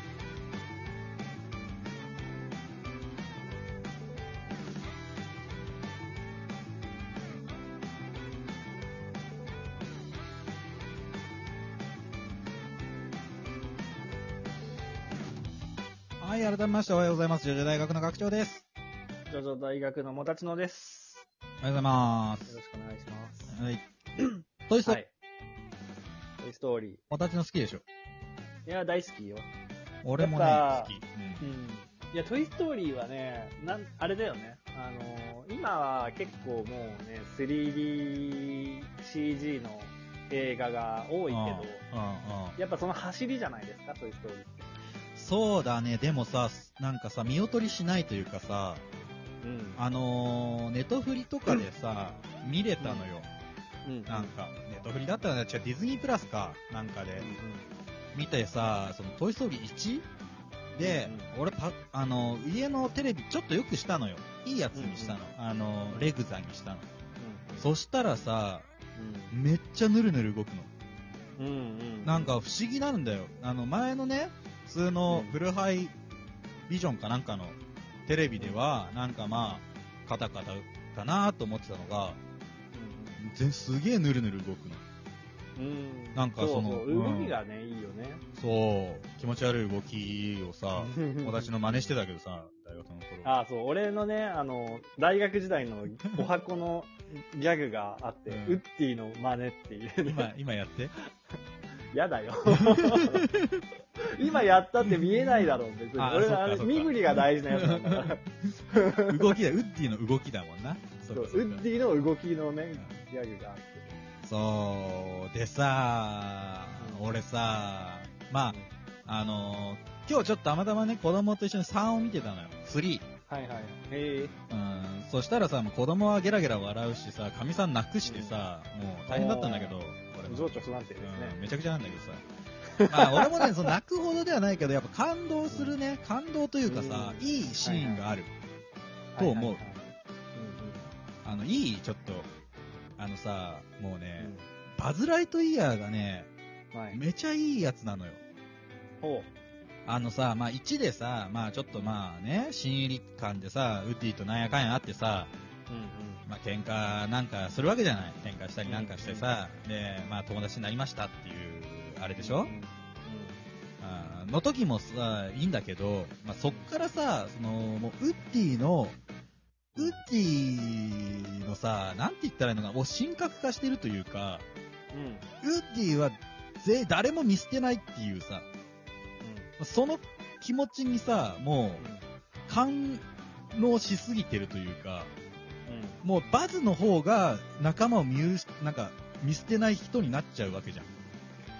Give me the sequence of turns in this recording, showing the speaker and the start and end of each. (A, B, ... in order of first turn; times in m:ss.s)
0:16.2-0:18.6 A
0:19.3-0:21.2 B
0:21.6-0:22.5 A
0:22.5-0:23.5 B
0:23.5-0:23.8 A
0:24.7-0:25.0 A
0:24.8-0:25.1 B
0:26.4-0:27.0 B
0:27.1-0:27.8 A
0:28.6-0:29.5 B
0:30.0-0:31.5 A
0:30.2-0:41.8 B
0:41.3-0:42.6 A
0:42.6-0:44.7 B
0:45.1-0:48.8 A
0:49.4-0:49.8 B
0:49.8-0:53.3 A
0:52.8-0:53.1 B
0:53.8-0:54.3 B
0:54.1-0:57.3 A
0:57.1-0:57.7 B
0:58.1-1:00.1 A
1:00.7-1:06.9 A
1:00.8-1:01.3 B
1:04.7-1:05.2 B
1:07.2-1:07.7 B
1:07.6-1:08.7 A
1:09.0-1:09.3 B
1:09.3-1:10.7 A
1:11.4-1:12.3 B
1:12.0-1:15.9 A
1:15.1-1:15.4 B
1:16.7-1:22.2 A
1:19.3-1:19.6 B
1:22.7-1:23.2 B
1:23.2-1:24.8 A
1:25.6-1:28.2 B
1:26.1-1:27.4 A
1:28.4-1:33.4 A
1:30.8-1:31.5 B
1:33.2-1:40.3 B
1:38.3-1:38.6 A
1:40.0-1:40.9 A
1:41.9-1:43.2 B
1:42.8-1:43.6 A
1:44.0-1:49.4 B
1:44.8-1:51.6 A
1:51.1-1:54.0 B
1:54.2-2:03.0 A
1:56.8-1:57.1 B
2:03.3-2:04.4 B
2:04.5-2:12.2 A
2:08.0-2:08.3 B
2:09.1-2:11.4 B
2:12.8-2:13.5 B
2:12.9-2:18.3 A
2:15.5-2:15.8 B
2:16.6-2:18.0 B
2:19.1-2:19.8 B
2:19.2-2:19.6 A
2:20.4-2:20.8 B
2:21.2-2:22.3 A
2:23.0-2:26.3 A
2:24.2-2:24.5 B
2:26.7-2:27.0 B
2:26.9-2:28.2 A
2:29.0-2:29.3 B
2:29.8-2:35.3 A
2:35.7-2:36.2 B
2:36.2-2:42.5 A
2:38.6-2:39.3 B
2:42.2-2:43.4 B
2:43.8-2:49.0 A
2:46.4-2:46.7 B
2:49.8-2:50.0 B
2:49.8-2:54.4 A
2:54.9-2:55.3 B
2:55.4-2:58.5 A
2:59.2-2:59.5 B
2:59.6-3:01.8 A
3:01.8-3:02.0 B
3:02.5-3:05.1 A
3:05.7-3:06.0 B
3:06.0-3:11.0 A